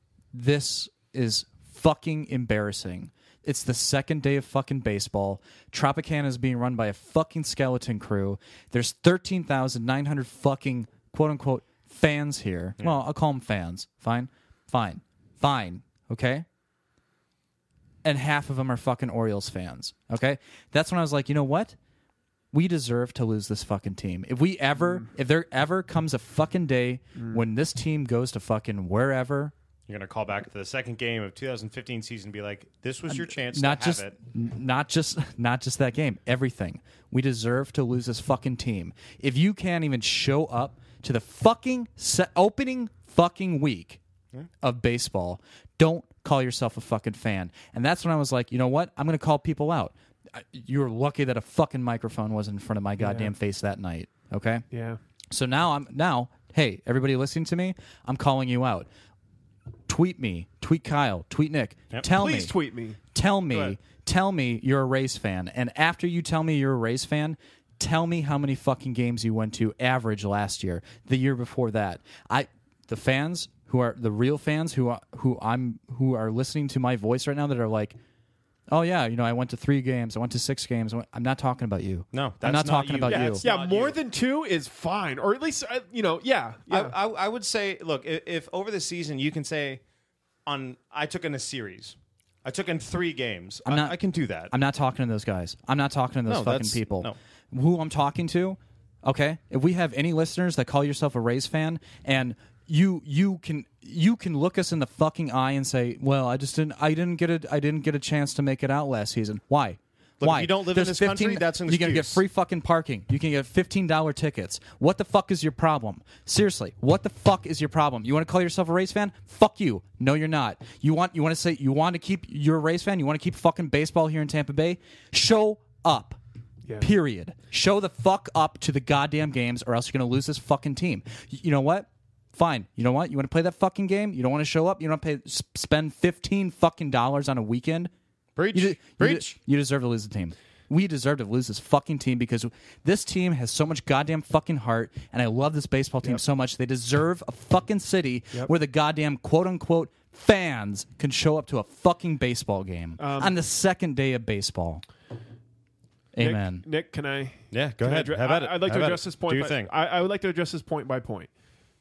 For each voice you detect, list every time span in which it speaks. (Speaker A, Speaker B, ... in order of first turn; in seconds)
Speaker A: 0.3-16.4, 18.0-21.8, 22.5-29.5, 33.1-44.0, 44.6-54.6, 55.3-58.9, 59.9-62.5, 63.1-78.0, 78.7-83.4, 93.7-94.0, 94.5-126.2, 126.8-137.9, 138.5-154.8, 156.1-156.7
Speaker B: 24.8-25.1, 27.2-27.4, 53.0-53.3, 54.7-55.0, 62.1-63.0, 83.1-87.0, 153.0-153.3, 156.2-161.3
Speaker C: 29.9-34.1, 82.1-84.0, 86.7-89.8, 90.5-94.5, 96.3-97.2, 110.2-112.2, 138.4-139.4, 157.5-159.7